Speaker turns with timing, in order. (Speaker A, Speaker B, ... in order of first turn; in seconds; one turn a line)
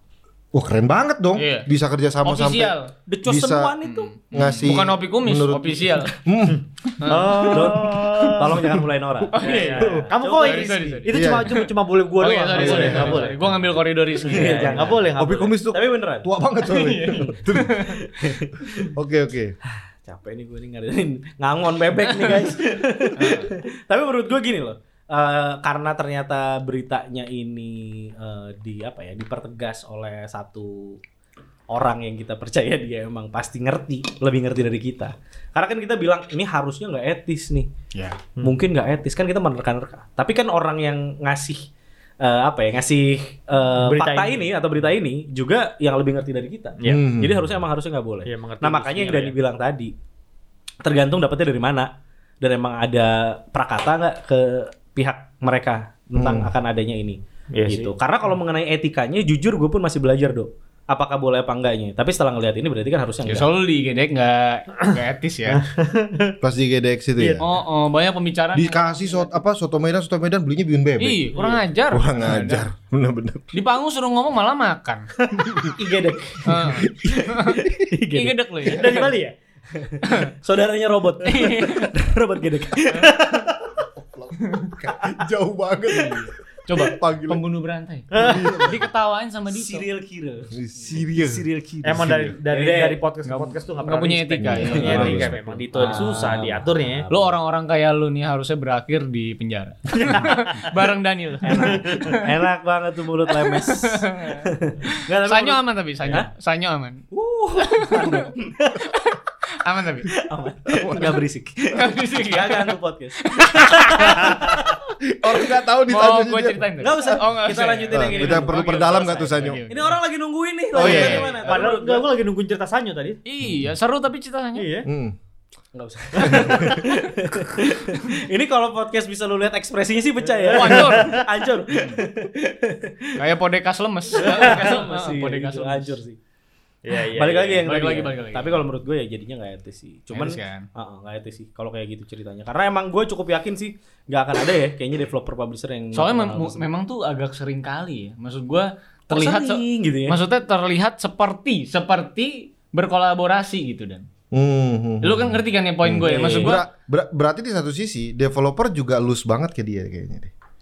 Speaker A: 0.5-3.8
Speaker B: 1.4-1.7
Speaker B: 2.2-2.9
Speaker C: 3.1-4.1
Speaker B: 3.8-6.2
Speaker A: 4.3-6.7
Speaker D: 6.5-8.7
Speaker B: 7.0-8.0
Speaker C: 7.5-11.0
Speaker B: 9.3-11.7
Speaker D: 9.4-13.4
Speaker A: 11.1-11.6
Speaker B: 12.2-14.9
Speaker C: 12.5-13.5
Speaker A: 12.6-13.3
Speaker C: 14.2-15.1
Speaker D: 14.2-15.6
Speaker A: 15.2-18.1
Speaker C: 15.7-16.3
Speaker B: 16.7-18.0
Speaker C: 18.1-18.6
Speaker A: 18.9-19.6
Speaker C: 20.0-31.0
Speaker B: 22.1-22.5
Speaker B: 23.1-23.5
Speaker C: 31.7-37.7
Speaker B: 37.9-38.2
Speaker C: 38.4-41.7
Speaker C: 42.2-49.9
Speaker D: 43.8-44.5
Speaker A: 46.9-47.5
Speaker D: 48.3-49.4
Speaker C: 50.8-63.5
Speaker A: 56.1-56.5
Speaker D: 57.5-57.9
Speaker B: 63.3-65.6
Speaker D: 65.5-66.4
Speaker A: 66.4-67.4
Speaker B: 67.4-69.0
Speaker A: 68.5-73.5
Speaker B: 71.0-72.7
Speaker B: 73.5-75.1
Speaker C: 75.3-79.1
Speaker A: 75.4-75.7
Speaker B: 76.4-77.6
Speaker A: 76.5-77.7
Speaker B: 78.1-79.1
Speaker D: 78.7-79.3
Speaker C: 79.8-83.4
Speaker B: 80.0-80.3
Speaker B: 81.2-81.9
Speaker B: 82.9-83.2
Speaker A: 83.8-87.4
Speaker B: 84.5-84.7
Speaker B: 85.9-89.9
Speaker D: 88.1-88.5
Speaker A: 88.2-88.8
Speaker C: 88.2-88.8
Speaker C: 89.5-93.0
Speaker A: 90.5-91.5
Speaker D: 91.8-97.0
Speaker A: 92.0-92.3
Speaker B: 93.2-95.4
Speaker A: 94.4-95.3
Speaker C: 94.6-97.3
Speaker B: 97.1-102.2
Speaker D: 100.1-100.3
Speaker C: 101.4-106.3
Speaker D: 101.6-102.1
Speaker B: 103.4-107.1
Speaker C: 107.1-108.8
Speaker B: 107.6-110.1
Speaker C: 110.2-114.6
Speaker A: 110.8-111.2
Speaker B: 111.7-114.4
Speaker A: 115.1-117.1
Speaker B: 115.9-120.0
Speaker C: 116.8-122.1
Speaker A: 117.9-119.6
Speaker A: 120.7-121.3
Speaker B: 120.8-121.5
Speaker D: 120.8-123.2
Speaker B: 123.2-124.7
Speaker D: 124.6-124.9
Speaker A: 124.9-125.2
Speaker C: 125.7-133.2
Speaker D: 126.2-126.5
Speaker A: 126.3-126.9
Speaker D: 130.3-131.2
Speaker B: 130.5-132.0
Speaker B: 133.2-136.0
Speaker C: 134.1-136.2
Speaker D: 136.8-137.7
Speaker C: 137.1-146.7
Speaker B: 137.6-138.6
Speaker B: 140.1-140.7
Speaker B: 145.9-154.1
Speaker C: 149.1-150.2
Speaker A: 154.3-160.3
Speaker B: 155.0-156.7
Speaker C: 156.1-156.6